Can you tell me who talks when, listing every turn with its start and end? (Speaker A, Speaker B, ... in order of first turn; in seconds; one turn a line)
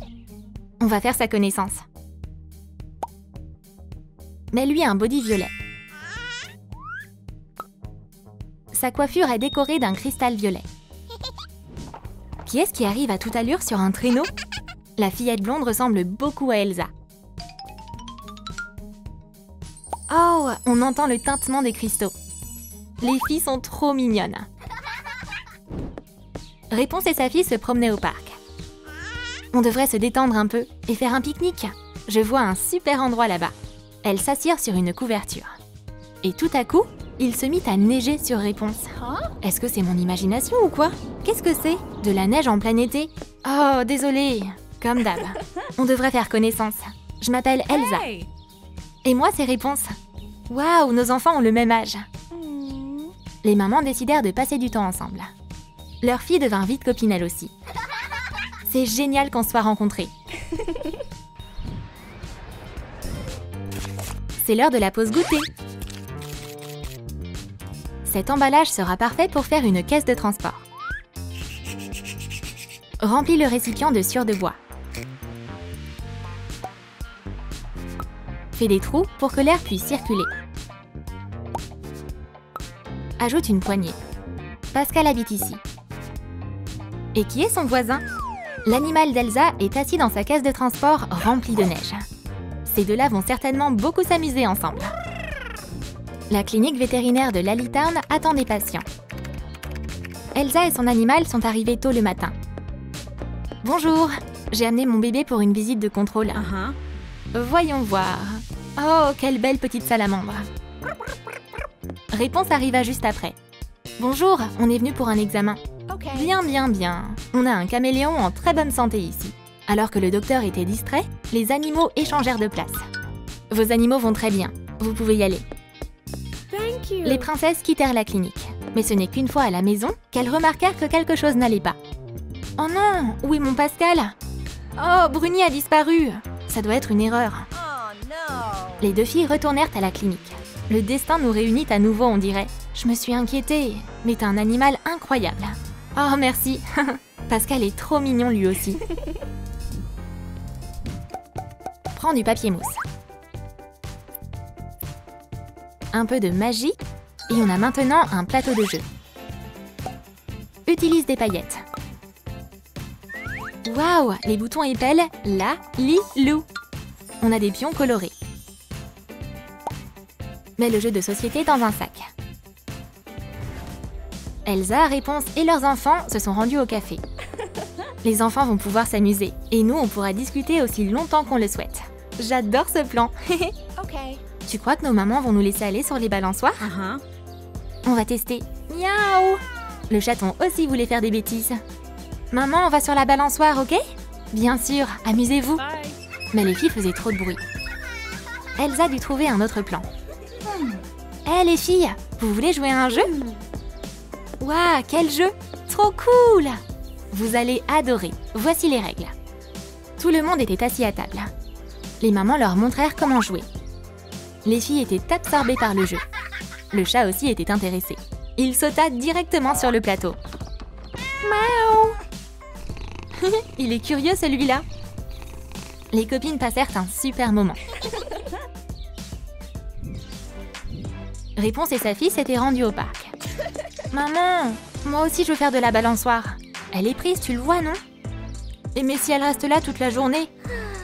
Speaker A: 0.8-1.8
Speaker A: 4.5-5.5
Speaker A: 8.7-10.7
Speaker A: 12.4-14.3
Speaker A: 15.0-16.9
Speaker A: 20.1-22.1
Speaker A: 23.0-24.5
Speaker A: 26.7-28.4
Speaker A: 29.5-35.5
Speaker A: 36.2-48.1
Speaker B: 39.0-39.4
Speaker B: 47.7-48.3
Speaker A: 49.0-49.9
Speaker A: 50.5-52.1
Speaker B: 52.3-53.1
Speaker A: 53.4-55.3
Speaker A: 56.0-57.5
Speaker A: 58.7-60.1
Speaker A: 64.4-65.5
Speaker A: 68.0-70.6
Speaker A: 73.0-74.6
Speaker A: 78.6-80.3
Speaker A: 83.2-84.0
Speaker A: 84.7-85.6
Speaker A: 87.1-88.0
Speaker A: 88.7-92.0
Speaker A: 92.6-94.9
Speaker A: 96.3-98.8
Speaker A: 100.3-102.3
Speaker A: 103.6-106.5
Speaker B: 106.3-106.8
Speaker A: 107.3-110.5
Speaker A: 112.1-113.3
Speaker A: 114.0-122.8
Speaker B: 115.9-116.3
Speaker A: 123.5-125.4
Speaker B: 126.5-127.3
Speaker A: 127.0-131.8
Speaker A: 132.6-134.1
Speaker A: 134.8-137.5
Speaker B: 137.6-138.8
Speaker A: 138.8-148.9
Speaker A: 151.9-152.8
Speaker A: 155.9-158.8
Speaker A: 160.7-161.6
Speaker A: 163.7-166.4
Speaker A: 167.2-168.1
Speaker A: 170.6-172.1
Speaker A: 174.4-177.0
Speaker A: 178.0-183.5
Speaker B: 183.8-184.2
Speaker A: 184.5-186.7
Speaker B: 186.6-187.0
Speaker A: 187.8-191.6
Speaker A: 192.3-193.8
Speaker A: 194.3-195.7
Speaker A: 196.3-197.4
Speaker A: 198.6-199.8
Speaker B: 200.4-200.8
Speaker A: 201.2-203.1
Speaker B: 202.9-203.4
Speaker A: 204.4-206.6
Speaker A: 207.1-209.1
Speaker A: 210.0-211.3
Speaker A: 212.0-213.5
Speaker A: 214.4-216.0
Speaker A: 216.7-220.2
Speaker B: 221.2-222.0
Speaker A: 223.2-224.6
Speaker A: 225.9-227.6
Speaker A: 231.4-233.1
Speaker A: 233.9-237.8
Speaker A: 238.7-240.3